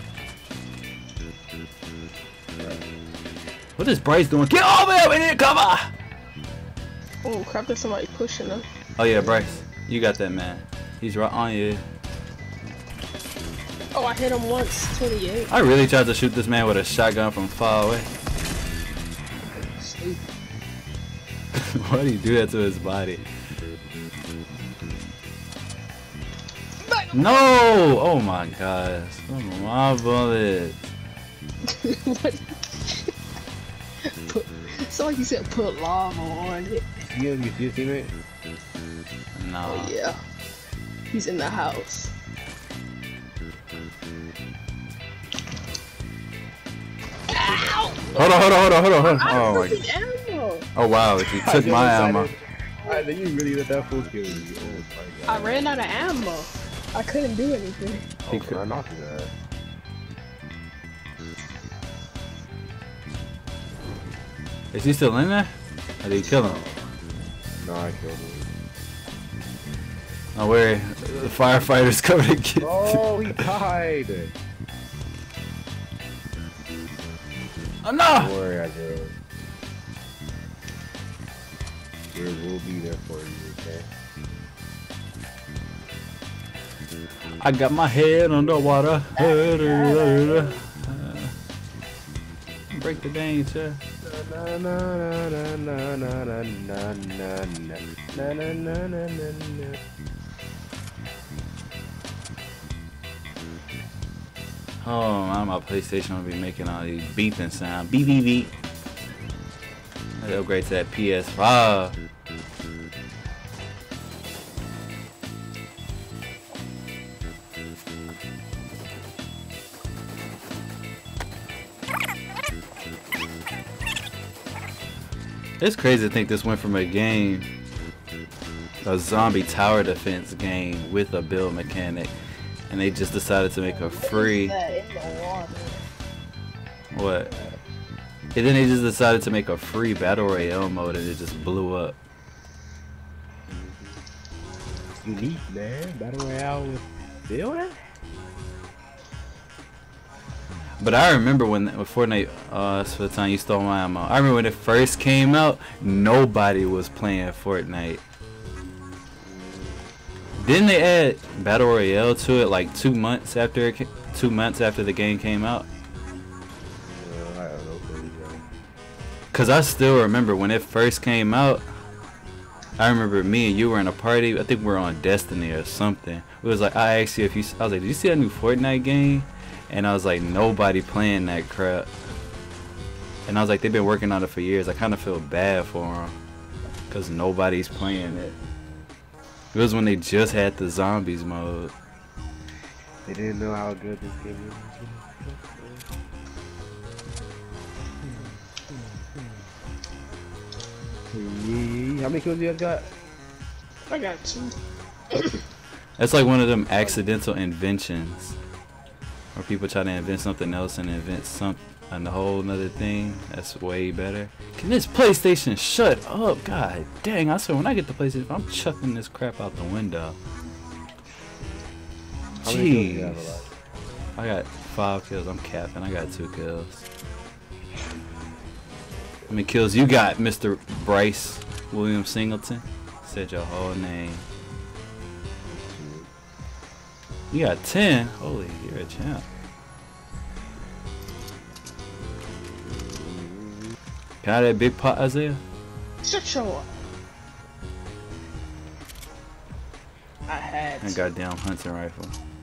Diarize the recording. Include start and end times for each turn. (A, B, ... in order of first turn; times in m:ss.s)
0:02.6-0:02.8 A
0:03.8-0:05.9 B
0:07.2-0:08.6 C
0:09.0-0:11.8 B
0:13.9-0:15.5 C
0:15.5-0:18.1 B
0:19.5-0:20.3 C
0:21.6-0:23.2 B
0:26.8-0:27.5 C
0:27.1-0:30.8 B
0:31.7-0:33.1 C
0:34.2-0:36.8 C
0:37.1-0:38.1 A
0:39.4-0:39.9 B
0:39.6-0:40.2 C
0:41.1-0:42.1 C
0:47.3-0:48.0 C
0:47.4-0:48.4 A
0:48.2-0:49.8 B
0:49.0-0:50.7 C
0:50.8-0:52.3 B
0:51.2-0:55.8 A
0:55.3-0:58.1 C
0:58.3-0:58.6 B
0:58.3-0:59.3 A
1:04.7-1:06.6 B
1:06.3-1:06.7 A
1:07.6-1:08.5 A
1:10.4-1:13.5 B
1:12.6-1:14.3 A
1:17.8-1:18.3 B
1:18.2-1:19.1 A
1:22.1-1:23.9 A
1:27.4-1:31.3 B
1:28.4-1:30.5 A
1:32.7-1:33.8 B
1:34.0-1:39.8 A
1:44.8-1:48.5 B
1:50.2-1:52.0 B
2:05.6-2:07.5 B
2:08.8-2:12.1 B
2:12.7-2:14.6 B
2:13.7-2:15.8 C
2:16.9-2:17.3 B
2:18.4-2:22.0 B
2:25.0-2:27.8 A
2:30.8-2:38.0 B
2:39.2-2:39.8 A
2:40.4-2:45.7 B
2:46.8-2:48.4 A
2:49.3-2:51.6 B
2:52.8-3:01.9 B
3:03.3-3:06.2 B
3:06.9-3:08.4 B
3:09.5-3:11.7 B
3:13.1-3:15.8 A
3:21.1-3:22.9 A
3:23.9-3:24.6 C
3:26.0-3:28.4 B
3:29.4-3:40.2 B
3:42.4-3:43.5 A
3:42.4-3:43.5 B
3:44.2-3:46.9 B
3:49.3-3:54.3 B
3:55.5-3:56.1 A
3:57.3-3:59.2 B
4:03.2-4:03.5 A
4:04.2-4:05.4 B
4:06.0-4:06.7 C
4:10.3-4:11.0 C
4:10.8-4:12.2 B